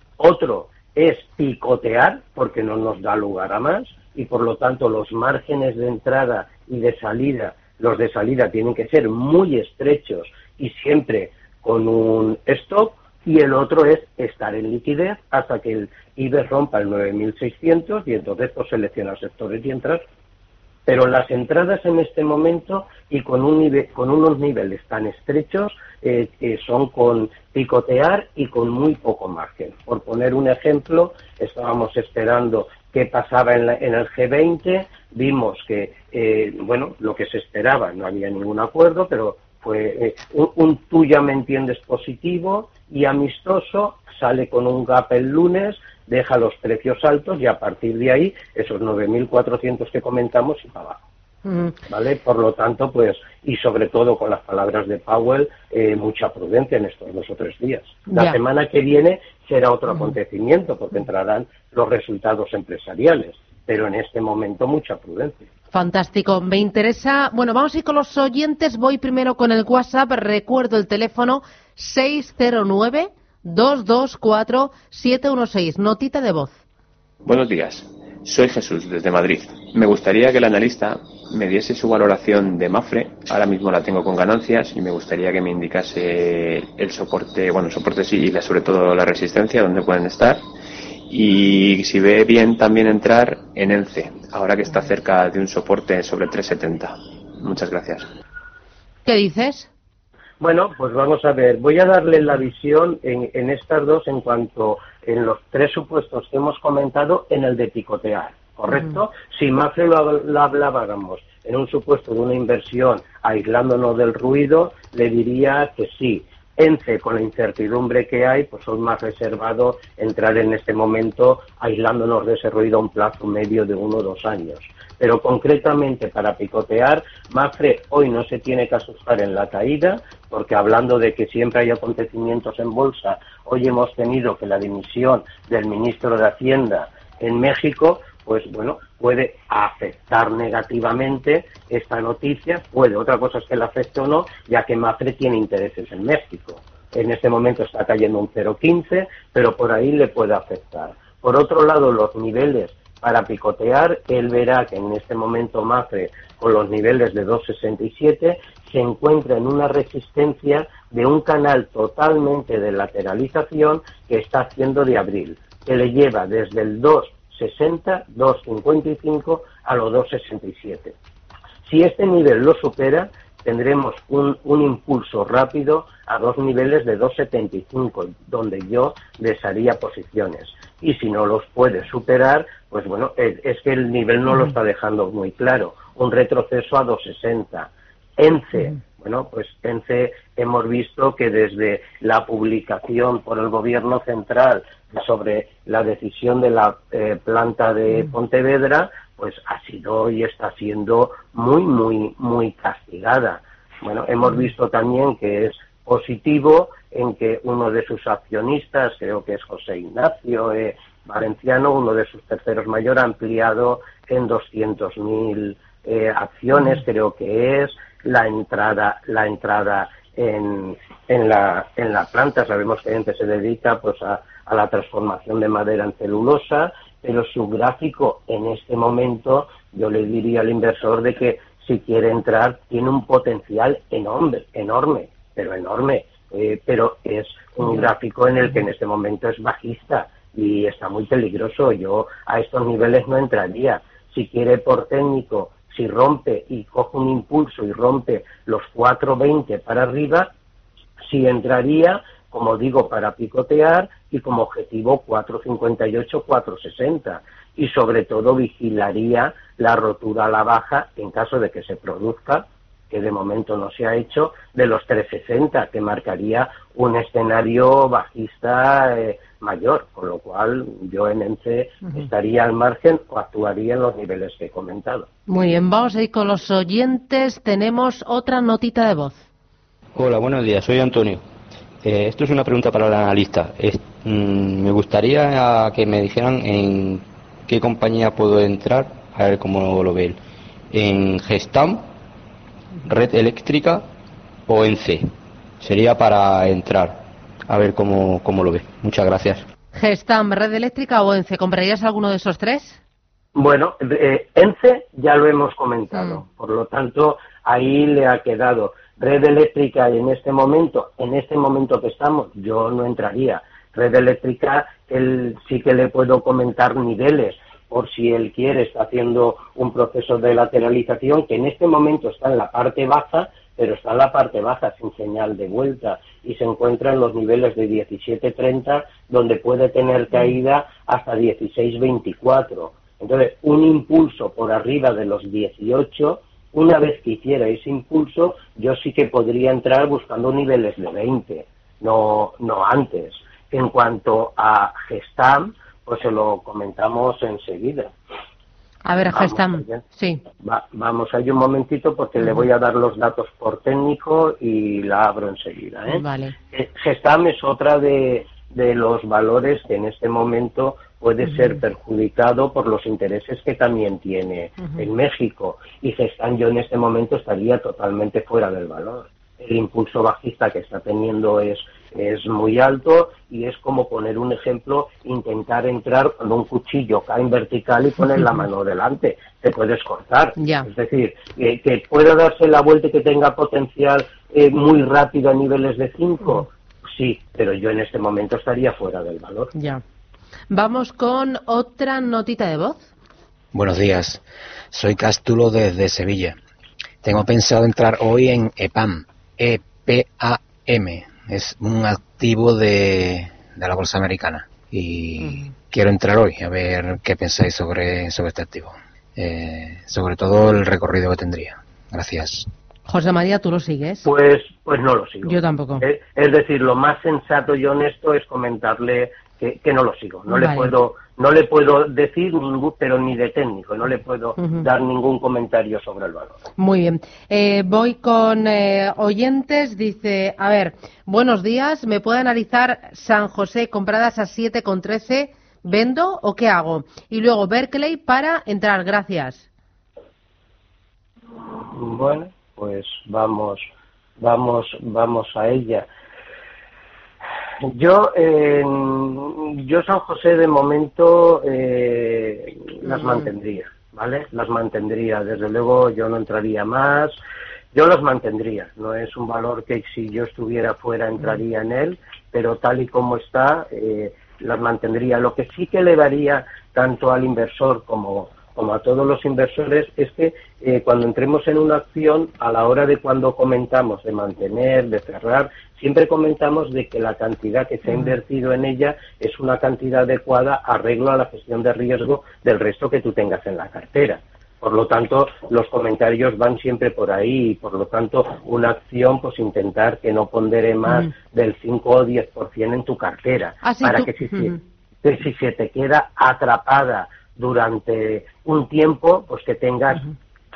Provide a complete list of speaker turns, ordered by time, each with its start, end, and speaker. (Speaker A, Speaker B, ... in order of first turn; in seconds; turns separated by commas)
Speaker A: 0.2-20.0, Speaker A: 20.9-51.0, Speaker B: 51.5-51.7, Speaker A: 51.9-65.5, Speaker B: 58.1-58.4, Speaker B: 65.7-76.6, Speaker C: 77.2-90.4, Speaker C: 91.1-98.1, Speaker B: 99.0-99.7, Speaker A: 100.4-171.0, Speaker A: 171.6-250.3, Speaker A: 251.1-275.1, Speaker B: 275.3-279.2, Speaker D: 279.9-281.2, Speaker D: 281.8-290.2, Speaker D: 290.7-291.9, Speaker D: 292.9-293.9, Speaker D: 294.5-299.5, Speaker B: 299.7-302.8, Speaker A: 303.4-347.9, Speaker B: 348.9-350.2, Speaker A: 349.1-349.8, Speaker A: 350.4-389.5, Speaker B: 355.9-356.4, Speaker B: 380.4-380.7, Speaker B: 389.6-389.8, Speaker B: 390.5-392.9, Speaker E: 393.5-396.4, Speaker E: 397.0-412.5, Speaker B: 412.9-414.1, Speaker A: 414.1-426.4, Speaker B: 415.2-415.9, Speaker B: 420.3-420.7, Speaker B: 424.4-424.6, Speaker B: 426.6-439.5, Speaker A: 441.5-443.7, Speaker A: 444.2-445.9, Speaker A: 447.7-457.2, Speaker A: 457.7-500.1, Speaker B: 493.6-494.6